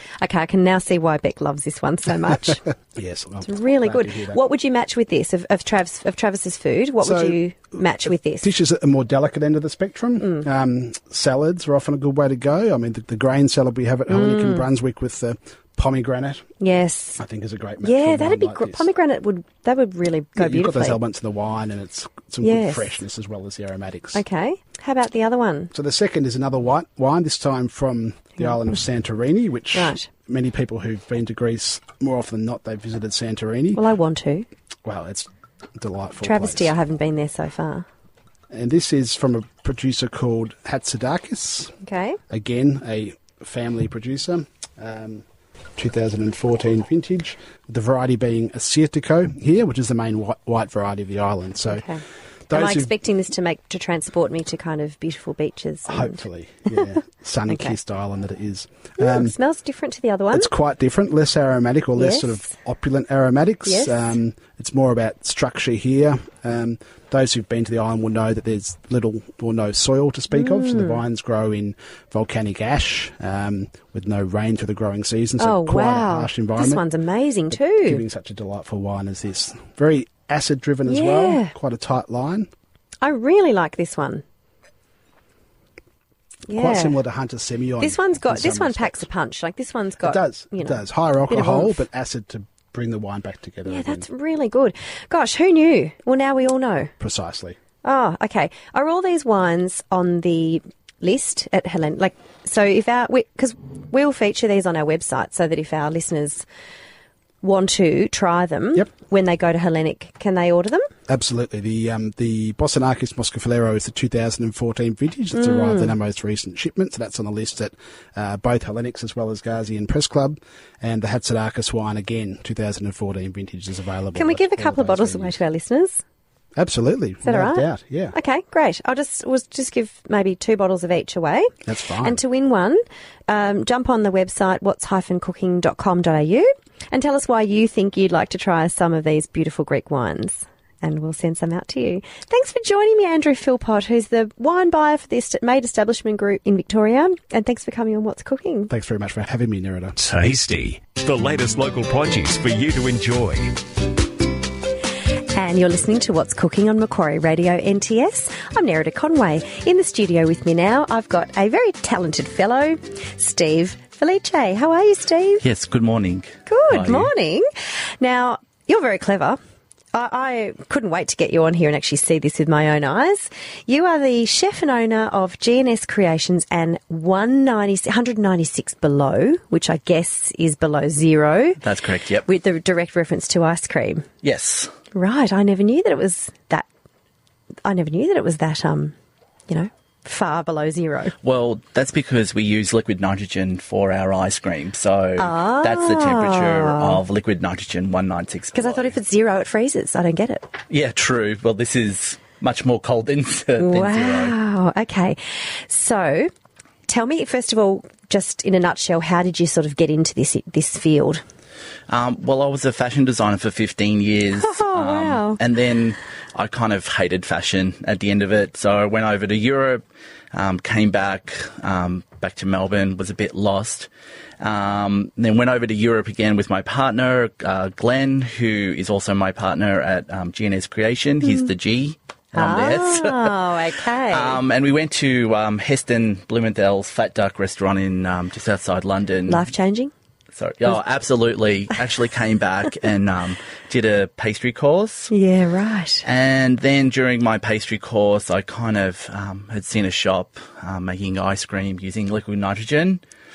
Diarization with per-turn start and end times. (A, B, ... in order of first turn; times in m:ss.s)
0:00.2-0:02.6 A
0:02.9-0:04.4 B
0:03.4-0:08.5 A
0:07.0-0:16.5 B
0:14.1-0:14.6 A
0:16.6-0:17.2 A
0:17.2-0:18.9 B
0:17.8-0:21.0 A
0:20.4-0:24.2 B
0:22.4-0:23.0 A
0:24.1-0:25.7 A
0:25.7-0:33.8 B
0:29.7-0:30.1 A
0:33.7-0:34.5 A
0:34.8-0:36.7 B
0:36.2-0:37.8 A
0:38.5-0:41.8 B
0:41.8-0:42.2 A
0:42.3-0:45.2 B
0:45.8-0:51.8 B
0:51.7-0:56.2 A
0:52.5-0:52.9 B
0:55.8-0:59.3 B
0:57.5-0:57.8 A
0:59.0-1:00.5 A
1:00.3-1:16.8 B
1:02.0-1:02.5 A
1:03.6-1:04.2 A
1:10.3-1:11.0 A
1:15.4-1:18.0 A
1:17.5-1:22.5 B
1:20.8-1:21.5 A
1:23.0-1:24.2 A
1:26.5-1:27.0 A
1:26.5-1:29.1 B
1:27.8-1:31.8 A
1:30.0-1:34.0 B
1:33.6-1:36.9 A
1:37.0-1:37.6 B
1:37.8-1:46.4 A
1:47.4-1:50.9 A
1:51.1-2:05.4 B
1:55.4-1:55.9 A
2:04.1-2:06.0 A
2:06.6-2:08.1 B
2:07.2-2:28.7 A
2:11.6-2:12.2 B
2:28.7-2:30.0 B
2:30.0-2:33.6 C
2:35.3-2:45.4 A
2:45.4-2:47.1 D
2:46.5-2:47.5 A
2:48.0-2:49.4 A
2:49.9-3:01.6 A
3:01.6-3:02.2 D
3:02.2-3:04.1 A
3:04.2-3:04.7 D
3:04.9-3:06.6 A
3:07.6-3:08.9 A
3:09.5-3:11.1 A
3:11.2-3:18.9 D
3:15.2-3:17.0 A
3:18.5-3:20.5 A
3:20.7-3:24.3 D
3:23.6-3:26.3 A
3:26.9-3:31.2 A
3:31.9-3:43.9 D
3:34.4-3:35.4 A
3:44.4-3:53.4 D
3:52.3-3:54.4 A
3:54.1-3:59.5 D
3:59.3-3:59.9 A
4:00.4-4:05.1 D
4:05.1-4:06.0 A
4:06.0-4:13.0 D